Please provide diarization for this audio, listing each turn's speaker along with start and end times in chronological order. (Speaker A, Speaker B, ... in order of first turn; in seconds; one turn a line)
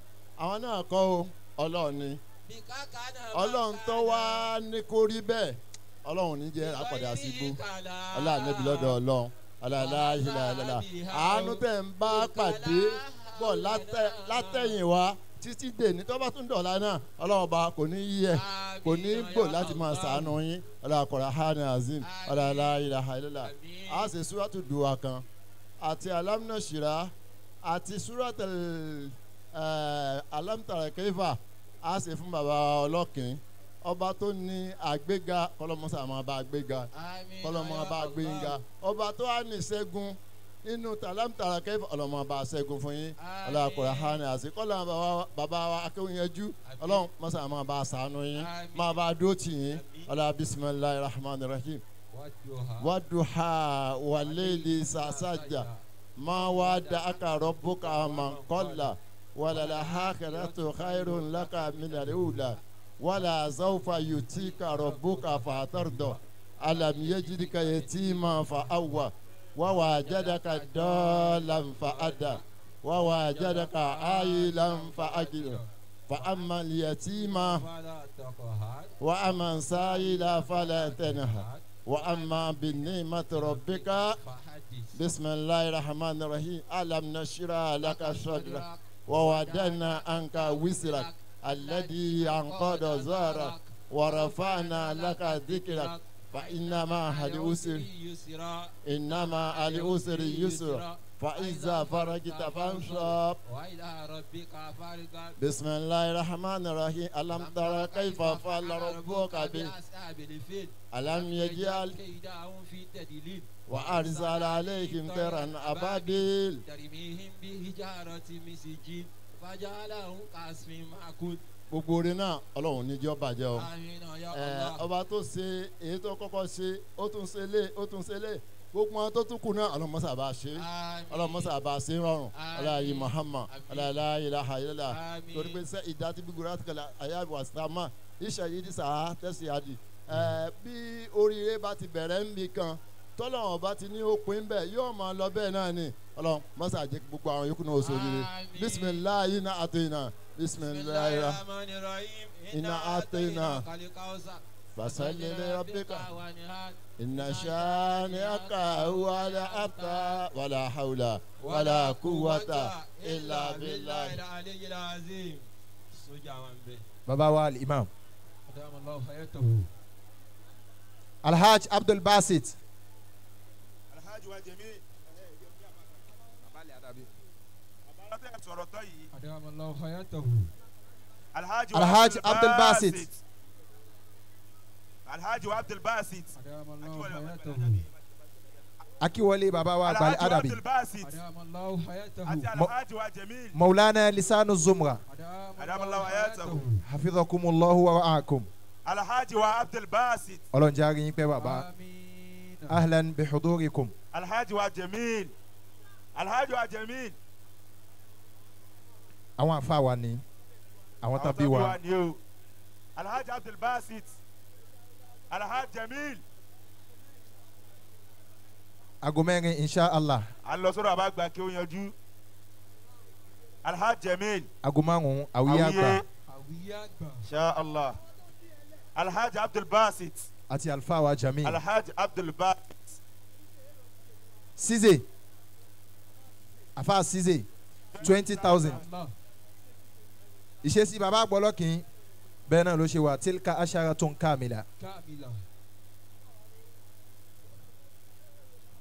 Speaker A: 0.4-2.2
Speaker B: 2.4-4.5
Speaker A: 3.3-7.6
Speaker B: 6.6-9.0
Speaker A: 8.1-25.2
Speaker B: 9.7-14.8
Speaker B: 18.3-20.4
Speaker B: 22.0-24.1
Speaker A: 25.8-36.9
Speaker B: 36.9-38.6
Speaker A: 37.4-51.8
Speaker B: 43.2-44.2
Speaker B: 46.6-47.1
Speaker B: 48.4-49.1
Speaker B: 49.6-50.2
Speaker B: 52.1-53.0
Speaker A: 52.8-77.6
Speaker B: 54.1-59.0
Speaker B: 59.5-62.6
Speaker B: 63.9-69.1
Speaker B: 69.7-85.0
Speaker A: 79.0-84.2
Speaker A: 85.0-97.9
Speaker B: 87.8-105.4
Speaker A: 98.8-103.4
Speaker A: 105.4-109.7
Speaker B: 107.3-121.4
Speaker A: 110.9-112.0
Speaker A: 113.7-116.6
Speaker A: 121.7-123.7
Speaker B: 123.5-124.9
Speaker A: 124.3-151.4
Speaker B: 130.6-131.5
Speaker B: 132.3-133.9
Speaker B: 134.9-135.6
Speaker B: 147.8-149.1
Speaker B: 150.6-160.2
Speaker A: 152.5-153.6
Speaker A: 154.8-156.1
Speaker A: 157.0-164.2
Speaker B: 161.4-166.8
Speaker C: 167.1-167.9
Speaker B: 168.5-169.7
Speaker C: 171.2-172.6
Speaker D: 173.9-175.7
Speaker C: 176.4-177.1
Speaker D: 177.9-179.1
Speaker B: 179.1-180.5
Speaker D: 181.3-183.2
Speaker C: 181.7-183.1
Speaker D: 185.1-188.0
Speaker B: 186.3-187.8
Speaker C: 189.0-190.6
Speaker D: 189.8-191.2
Speaker B: 191.0-192.5
Speaker D: 192.2-193.6
Speaker C: 193.5-195.0
Speaker B: 195.1-196.9
Speaker D: 195.6-196.6
Speaker C: 196.8-198.5
Speaker D: 198.8-200.4
Speaker C: 200.5-201.7
Speaker B: 201.3-202.8
Speaker C: 202.7-203.9
Speaker D: 204.1-205.3
Speaker D: 206.2-207.2
Speaker C: 209.4-210.2
Speaker C: 211.0-211.8
Speaker D: 211.2-212.2
Speaker D: 213.0-214.1
Speaker D: 215.3-216.2
Speaker C: 219.0-220.3
Speaker D: 220.4-221.9
Speaker D: 223.6-224.5
Speaker C: 224.6-226.0
Speaker D: 225.4-226.1
Speaker B: 226.3-227.3
Speaker D: 227.2-228.0
Speaker D: 228.9-230.3
Speaker C: 230.5-231.6
Speaker D: 231.4-233.0
Speaker C: 234.6-235.1
Speaker C: 236.8-237.5
Speaker D: 237.9-238.9
Speaker C: 238.0-238.8
Speaker B: 238.6-239.1
Speaker C: 240.6-241.9
Speaker C: 242.5-244.7
Speaker B: 244.8-245.4